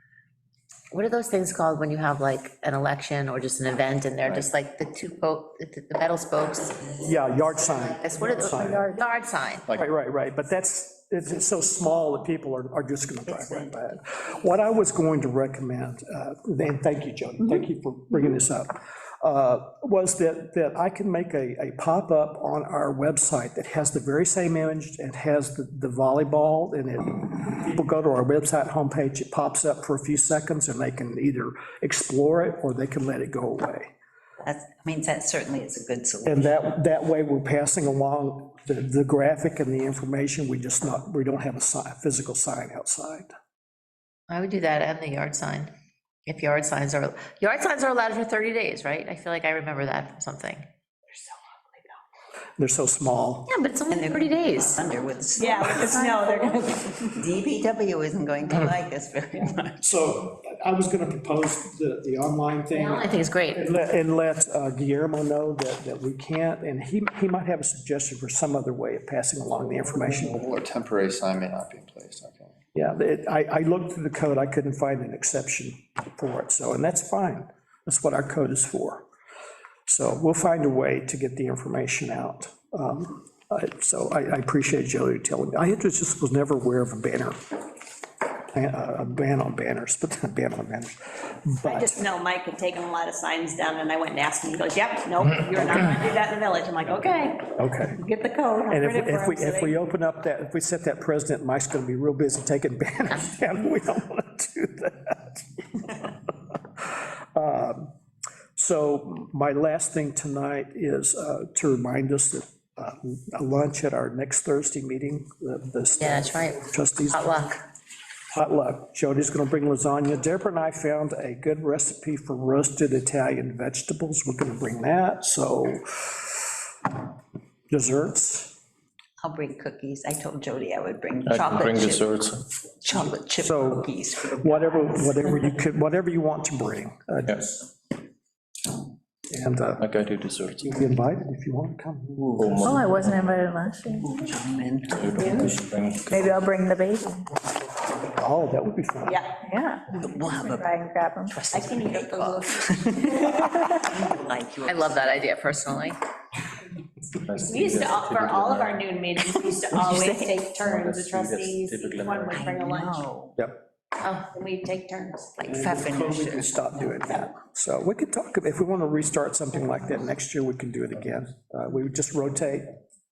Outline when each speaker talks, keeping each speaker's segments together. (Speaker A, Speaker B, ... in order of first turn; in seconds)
Speaker A: 0.9-9.6, 44.3-45.7, 46.2-50.7, 53.5-54.9, 62.7-63.6, 116.0-117.5, 154.6-156.0, 164.0-164.2
Speaker B: 4.2-4.5, 70.2-72.5
Speaker C: 7.0-8.8, 9.8-33.9, 36.2-43.3, 52.6-53.5, 59.8-70.4, 72.7-79.0, 79.8-87.4, 88.5-92.0, 95.5-95.9, 97.6-98.0, 98.7-107.9, 108.5-117.4, 118.3-126.3, 127.7-128.6, 133.4-137.7, 139.3-139.9, 140.6-142.8, 147.9-149.2, 165.4-172.7
Speaker D: 8.2-9.0, 55.5-56.4, 142.6-144.1, 145.2-145.5, 146.1-147.2, 149.4-151.4
Speaker E: 13.2-14.8, 34.4-36.6, 53.9-59.8, 129.2-132.2, 132.8-135.5, 144.0-145.3, 149.9-155.2, 159.2-160.6, 162.3-163.3, 165.4-167.0
Speaker F: 55.4-57.2, 91.6-99.8, 149.1-149.3, 151.5-153.3, 157.3-163.1, 164.2-165.4
Speaker G: 131.2-132.4, 139.8-140.8, 142.2-143.1, 144.9-146.3, 157.2-158.8, 160.6-162.3